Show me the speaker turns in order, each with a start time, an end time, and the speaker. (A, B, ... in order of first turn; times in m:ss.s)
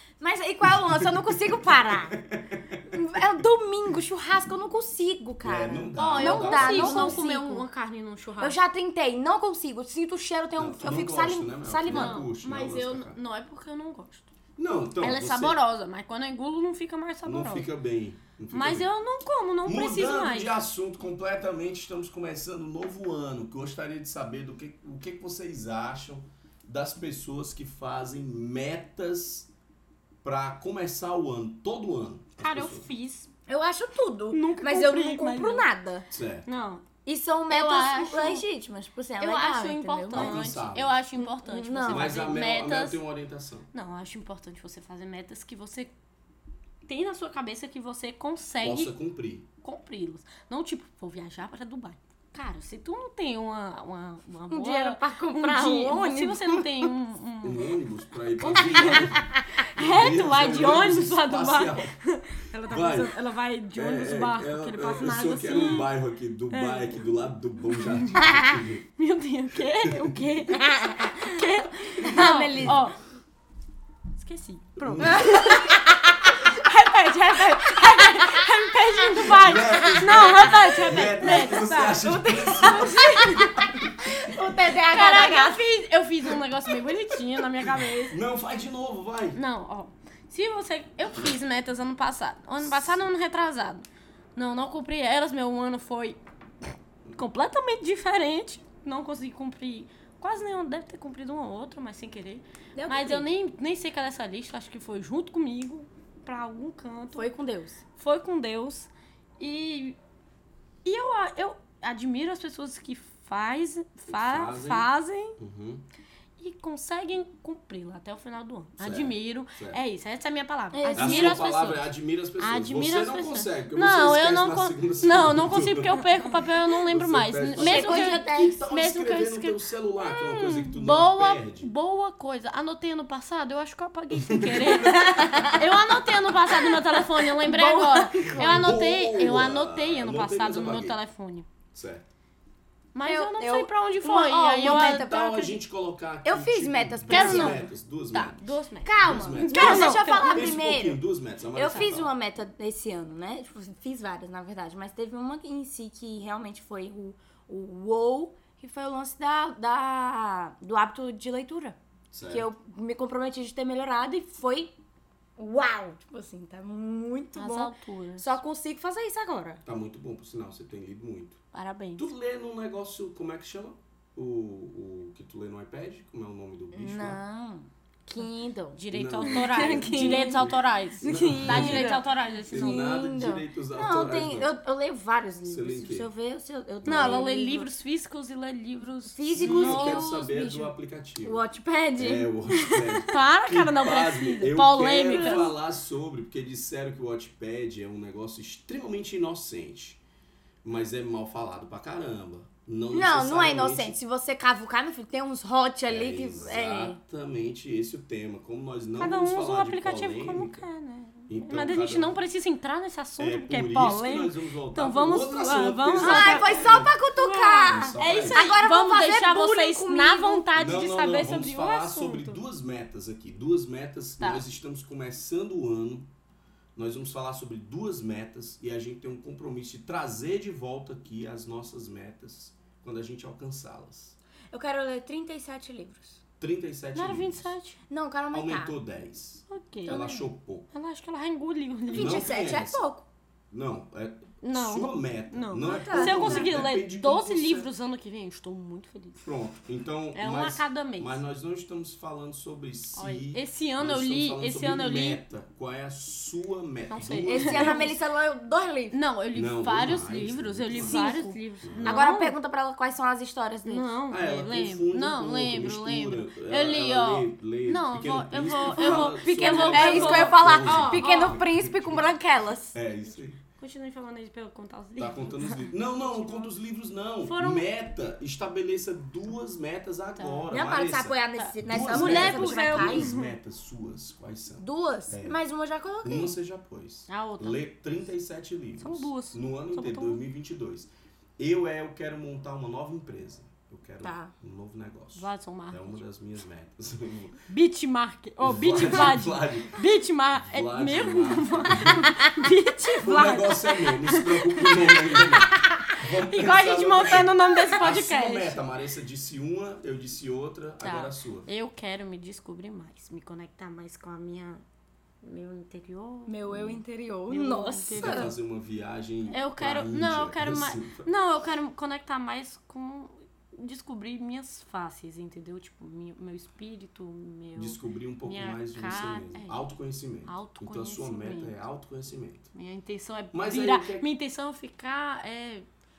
0:00.2-0:02.2 A
0:00.8-0:02.8 B
0:02.9-0:07.6 A
0:05.4-0:07.2 B
0:06.0-0:08.6 C
0:08.4-0:12.2 A
0:10.6-0:13.2 B
0:11.8-0:14.3 C
0:14.6-0:15.6 B
0:15.0-0:17.7 C
0:17.2-0:18.9 B
0:18.5-0:20.5 C
0:19.6-0:29.5 B
0:30.2-0:32.9 B
0:32.4-0:33.3 C
0:33.5-0:36.0 A
0:34.3-0:35.7 C
0:36.1-0:36.5 B
0:36.4-0:36.8 C
0:37.0-0:40.5 A
0:37.5-0:38.4 C
0:39.2-0:43.0 C
0:40.1-0:41.0 B
0:41.2-0:42.3 A
0:41.9-0:43.7 B
0:43.7-0:45.9 C
0:46.9-0:48.9 C
0:48.6-0:49.4 B
0:49.6-0:57.7 C
0:54.5-0:56.9 A
0:57.4-1:01.9 B
0:58.4-1:05.9 C
1:02.6-1:03.1 B
1:03.8-1:08.8 B
1:06.5-1:07.1 C
1:07.7-1:08.2 C
1:09.0-1:13.0 C
1:09.8-1:10.2 B
1:10.5-1:11.4 A
1:12.0-1:12.8 A
1:12.6-1:12.8 B
1:14.2-1:15.8 C
1:14.8-1:15.5 B
1:15.0-1:25.6 A
1:16.4-1:23.5 C
1:19.2-1:23.8 B
1:24.9-1:28.2 C
1:27.6-1:29.4 B
1:29.3-1:36.2 C
1:32.6-1:33.0 B
1:37.1-1:47.3 C
1:42.8-1:43.3 A
1:47.1-1:47.8 A
1:48.0-1:50.0 C
1:50.8-1:55.4 C
1:54.1-1:54.9 B
1:55.4-1:55.8 B
1:56.4-2:21.5 C
1:58.8-1:59.8 B
2:00.7-2:01.4 A
2:00.9-2:11.7 B
2:07.6-2:08.6 A
2:14.1-2:15.6 B
2:14.9-2:15.7 A
2:16.5-2:18.6 A
2:18.2-2:21.0 B
2:21.7-2:22.1 B
2:22.9-2:25.2 C
2:23.0-2:25.6 A
2:24.6-2:28.5 B
2:26.2-2:27.6 A
2:27.1-2:30.5 C
2:28.8-2:44.8 A
2:29.0-2:32.1 B
2:42.1-2:42.5 B
2:45.4-2:49.6 A
2:47.4-2:48.3 C
2:49.6-2:51.4 B
2:51.5-2:52.1 C
2:52.0-2:57.2 B
2:56.7-3:07.7 A
2:58.8-3:02.9 C
2:58.9-3:04.5 B
3:05.4-3:06.1 B
3:06.8-3:07.2 B
3:06.8-3:10.2 C
3:09.1-3:10.7 A
3:09.3-3:11.4 B
3:11.2-3:13.0 A
3:12.0-3:20.0 B
3:13.1-3:15.5 C
3:15.0-3:15.5 A
3:20.6-3:24.0 B
3:22.9-3:27.0 A
3:25.9-3:30.6 B
3:29.0-3:42.4 C
3:31.3-3:32.2 B
3:33.2-3:36.9 B
3:36.0-3:40.5 A
3:37.7-3:38.5 B
3:40.5-3:46.1 B
3:46.8-3:54.2 B
3:54.5-3:56.2 A
3:56.4-3:57.5 B
3:56.9-3:57.8 C
3:57.9-3:58.7 A
3:58.3-4:00.7 B
3:59.5-4:00.0 C
3:59.9-4:00.2 A
4:00.7-4:02.3 C
4:01.9-4:02.8 B
4:01.9-4:03.0 A
4:03.5-4:07.7 B
4:04.4-4:09.2 C
4:05.6-4:06.6 A
4:09.2-4:18.0 B
4:10.1-4:11.2 C
4:13.0-4:15.2 C
4:16.9-4:18.0 C
4:17.2-4:19.0 A
4:18.9-4:22.4 C
4:19.3-4:21.1 B
4:20.8-4:23.9 A
4:21.6-4:22.1 B
4:23.7-4:31.4 C
4:24.1-4:32.1 B
4:28.7-4:32.8 A
4:32.7-4:33.4 B
4:33.6-4:36.5 C
4:35.0-4:45.4 B
4:37.2-4:37.7 C
4:40.2-4:40.5 C
4:40.5-4:43.1 A
4:41.4-4:43.4 C
4:44.6-4:46.3 A
4:46.0-4:57.4 B
4:47.1-4:47.6 C
4:48.8-4:50.2 C
4:54.0-4:54.3 A
4:55.1-4:55.9 C
4:57.5-5:08.6 C
4:58.4-4:59.8 B
5:00.4-5:02.2 B
5:03.0-5:11.5 B
5:10.8-5:14.6 C
5:15.2-5:18.3 C
5:16.3-5:18.3 A
5:17.9-5:21.1 B
5:19.3-5:29.6 C
5:27.6-5:32.5 B
5:30.2-5:31.6 C
5:32.5-5:35.7 C
5:33.3-5:34.0 B